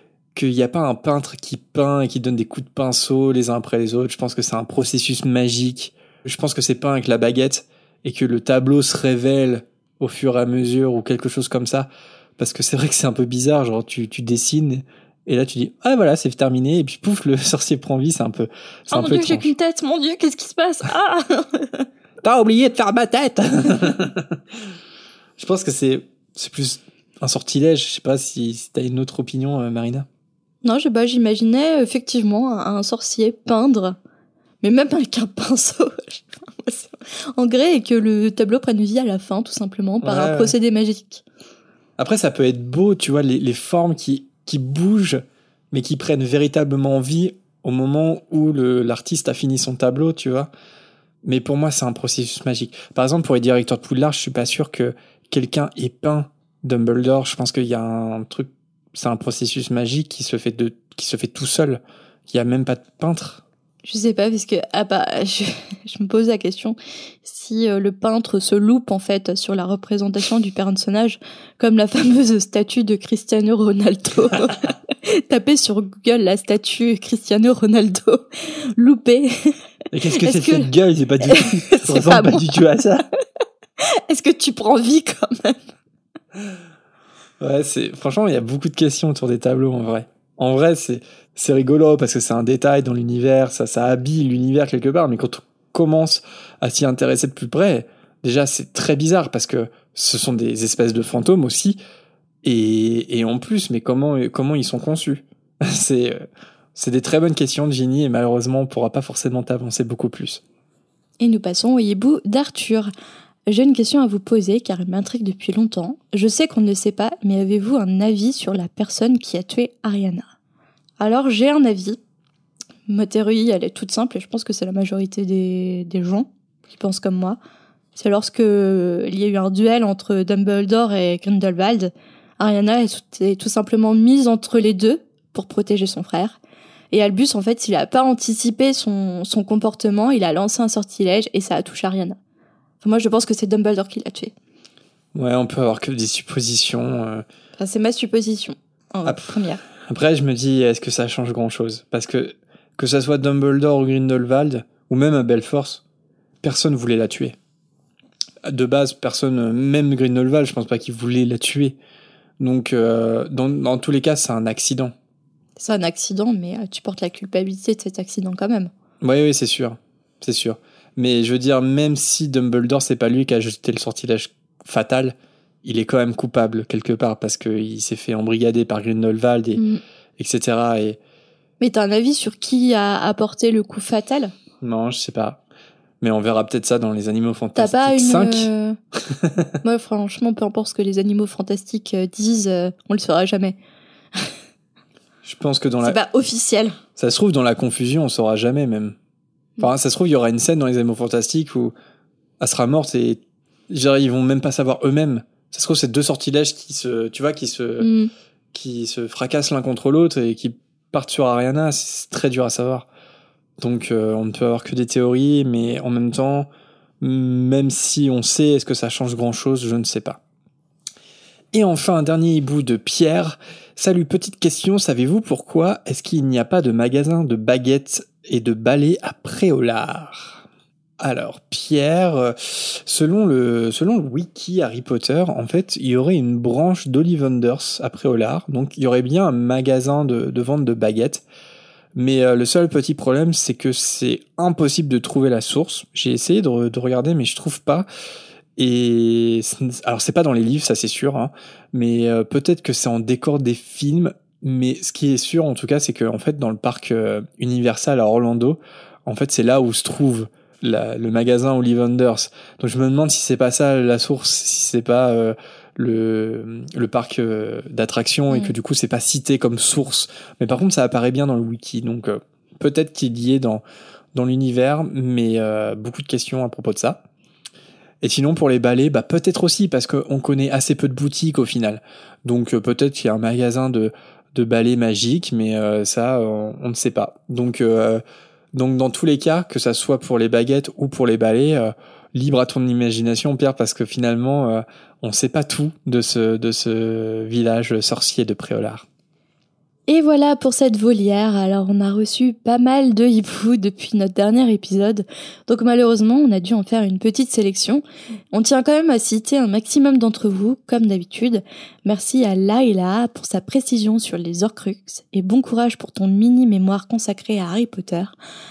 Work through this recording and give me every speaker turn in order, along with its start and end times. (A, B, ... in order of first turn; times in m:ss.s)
0:00.4-0:19.5 A
0:18.9-0:21.9 B
0:22.2-0:24.6 A
0:25.4-0:30.1 A
0:30.6-0:34.0 B
0:34.6-0:41.2 B
0:40.0-0:40.5 A
0:42.0-0:50.5 A
0:51.2-1:03.4 A
1:03.8-1:19.5 B
1:19.9-1:23.1 A
1:20.1-1:20.7 B
1:21.3-1:22.6 B
1:23.8-1:25.7 B
1:27.4-1:41.8 A
1:42.4-1:50.4 A
1:51.2-1:52.9 B
1:53.5-2:00.3 B
2:01.0-2:02.0 B
2:02.9-2:07.4 B
2:08.0-2:16.4 B
2:16.9-2:22.2 B
2:22.8-2:24.3 B
2:25.2-2:27.2 A
2:27.6-2:29.6 B
2:29.0-2:35.8 A
2:36.4-2:37.4 A
2:38.4-2:41.8 A
2:42.4-2:44.9 A
2:45.6-2:48.7 B
2:49.0-2:59.6 A
3:00.2-3:01.0 A
3:01.6-3:04.4 B
3:04.6-3:05.4 A
3:06.0-3:08.5 A
3:07.6-3:08.8 B
3:09.1-3:09.4 A
3:09.6-3:13.6 B
3:15.2-3:16.0 A
3:15.8-3:16.8 B
3:17.0-3:19.0 A
3:19.6-3:21.7 A
3:22.4-3:27.9 A
3:27.8-3:28.1 B
3:28.5-3:32.9 A
3:33.6-3:36.5 A
3:37.0-3:40.2 A
3:41.5-3:50.4 A
3:51.0-4:01.2 A
4:02.0-4:07.9 A
4:08.6-4:33.6 A
4:34.1-4:37.0 A
4:38.0-4:48.0 A
4:48.5-4:58.8 A
4:59.9-5:18.2 B